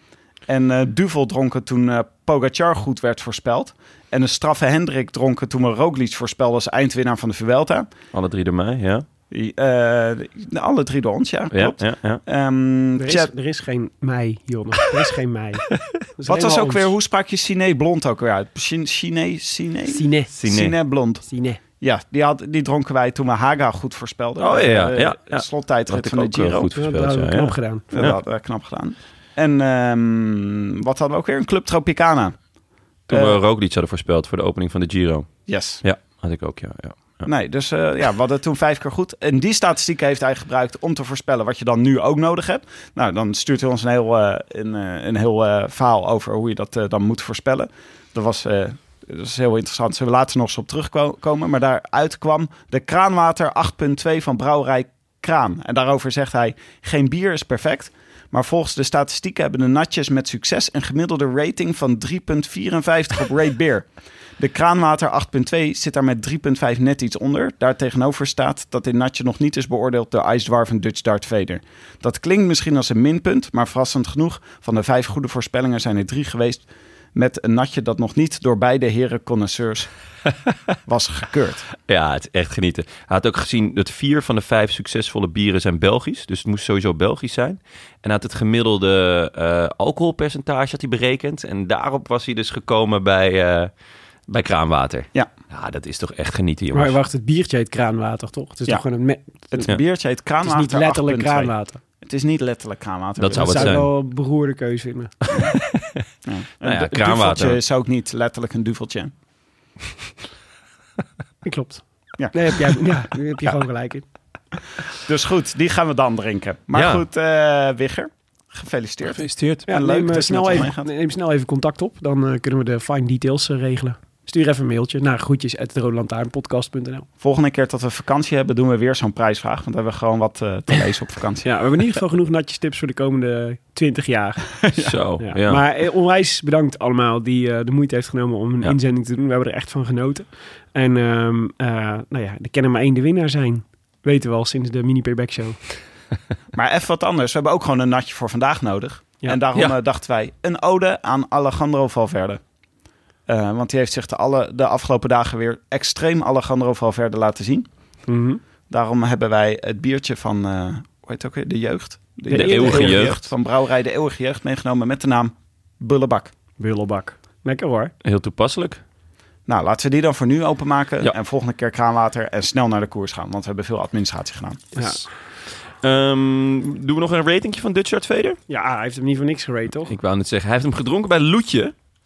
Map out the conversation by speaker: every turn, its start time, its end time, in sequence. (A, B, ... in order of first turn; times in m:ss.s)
0:00.5-0:07.9 A
0:08.1-0:09.0 B
0:09.3-0:13.3 A
0:11.5-0:12.2 B
0:13.0-0:15.6 C
0:16.2-0:16.9 C
0:16.3-0:21.2 A
0:19.9-0:20.3 C
0:20.4-0:20.7 B
0:21.2-0:21.6 C
0:21.8-0:26.7 A
0:24.4-0:28.2 B
0:26.8-0:27.9 C
0:27.9-0:32.4 A
0:33.1-0:37.3 B
0:33.1-0:33.4 A
0:35.5-0:35.8 A
0:37.2-1:03.9 A
1:04.4-1:19.9 A
1:20.9-1:21.7 A
1:21.9-1:33.7 B
1:34.3-1:37.0 B
1:36.7-1:39.7 C
1:39.5-1:43.8 A
1:40.4-1:41.8 C
1:43.2-1:43.9 B
1:43.3-1:45.1 C
1:45.3-1:46.0 B
1:46.2-1:49.1 A
1:46.6-1:47.6 B
1:51.4-1:54.0 C
1:52.2-1:52.8 A
1:55.0-2:00.9 A
1:56.7-1:57.0 B
1:59.1-1:59.6 B
1:59.7-2:07.0 C
2:07.2-2:11.5 A
2:11.4-2:14.5 C
2:14.7-2:15.6 B
2:15.2-2:25.6 C
2:26.5-2:32.4 A
2:33.3-2:37.7 A
2:38.1-2:38.4 C
2:38.7-2:46.3 A
2:42.3-2:43.0 C
2:42.3-2:43.2 B
2:46.6-2:47.9 C
2:48.0-2:48.8 B
2:49.5-2:54.8 A
2:54.8-2:55.0 C
2:54.8-2:55.0 B
2:55.8-2:58.4 B
2:58.5-2:59.9 C
2:59.8-3:01.7 B